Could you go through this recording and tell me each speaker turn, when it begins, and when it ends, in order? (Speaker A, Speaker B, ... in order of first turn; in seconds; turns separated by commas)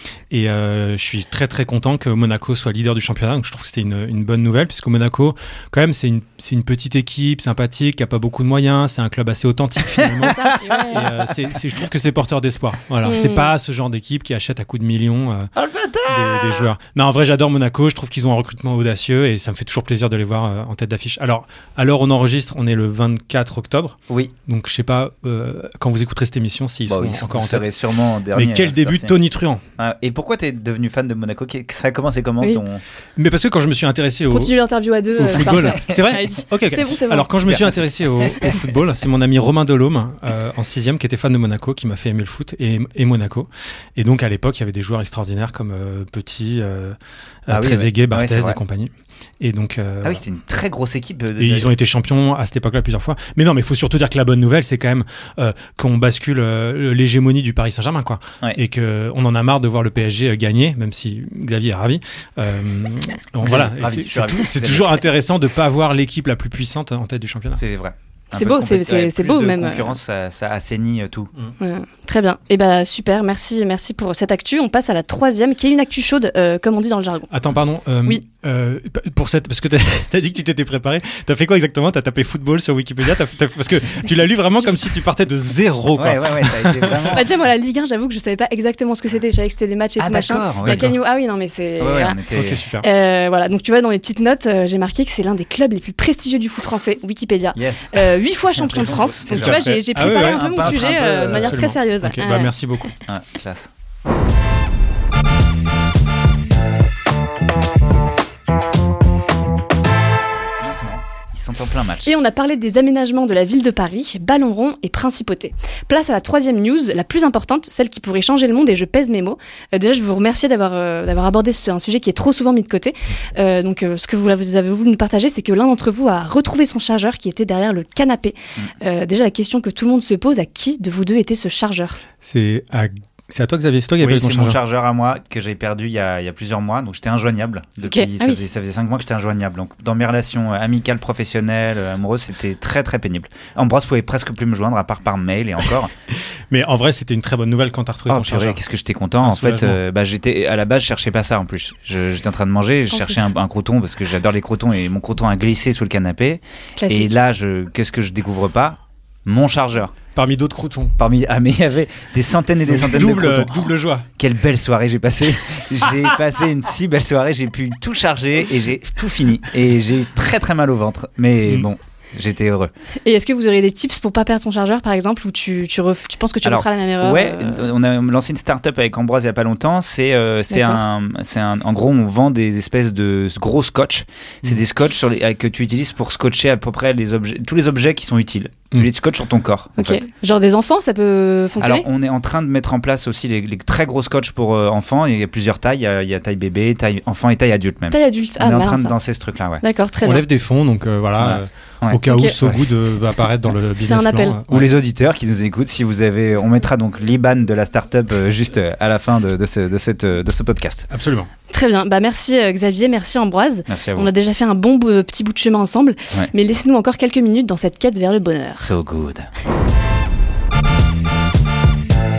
Speaker A: 0.3-15.5, Speaker B: 10.3-11.1, Speaker B: 13.0-13.5, Speaker C: 15.6-16.7, Speaker A: 16.1-27.7, Speaker C: 26.9-29.2, Speaker A: 28.3-29.6, Speaker C: 29.8-32.8, Speaker A: 33.2-34.5, Speaker B: 34.3-37.3, Speaker A: 35.2-47.0, Speaker C: 35.4-36.0, Speaker C: 37.4-38.6, Speaker A: 47.5-50.2, Speaker C: 47.5-48.6, Speaker C: 50.0-51.7, Speaker A: 51.4-67.6, Speaker C: 63.4-65.0, Speaker C: 67.5-71.3, Speaker B: 68.3-70.0, Speaker B: 71.6-77.3, Speaker A: 77.3-87.2, Speaker C: 86.0-87.3, Speaker B: 87.1-92.2, Speaker C: 90.0-90.9, Speaker A: 90.6-91.0, Speaker C: 91.8-92.6, Speaker A: 92.3-92.9, Speaker B: 92.8-102.5, Speaker C: 97.6-101.6, Speaker A: 99.3-102.9, Speaker C: 103.1-103.7, Speaker C: 110.6-112.1, Speaker B: 112.0-132.0, Speaker A: 132.2-134.6, Speaker C: 134.0-145.9, Speaker B: 137.9-138.4, Speaker A: 146.5-148.6, Speaker C: 148.1-159.9, Speaker A: 149.2-149.8, Speaker B: 152.9-153.3, Speaker B: 156.8-157.2, Speaker A: 160.1-160.9, Speaker C: 161.0-172.7, Speaker A: 162.7-164.1, Speaker B: 173.0-177.7, Speaker C: 176.4-190.0, Speaker B: 180.5-180.8, Speaker B: 189.8-191.8, Speaker C: 191.6-199.6, Speaker B: 197.9-199.0, Speaker B: 199.6-200.2, Speaker A: 200.0-204.7, Speaker C: 201.2-202.7, Speaker B: 202.1-202.3, Speaker B: 203.8-204.4, Speaker C: 204.5-210.9, Speaker A: 210.9-211.3, Speaker B: 211.5-218.7, Speaker C: 213.7-214.1, Speaker C: 218.6-219.3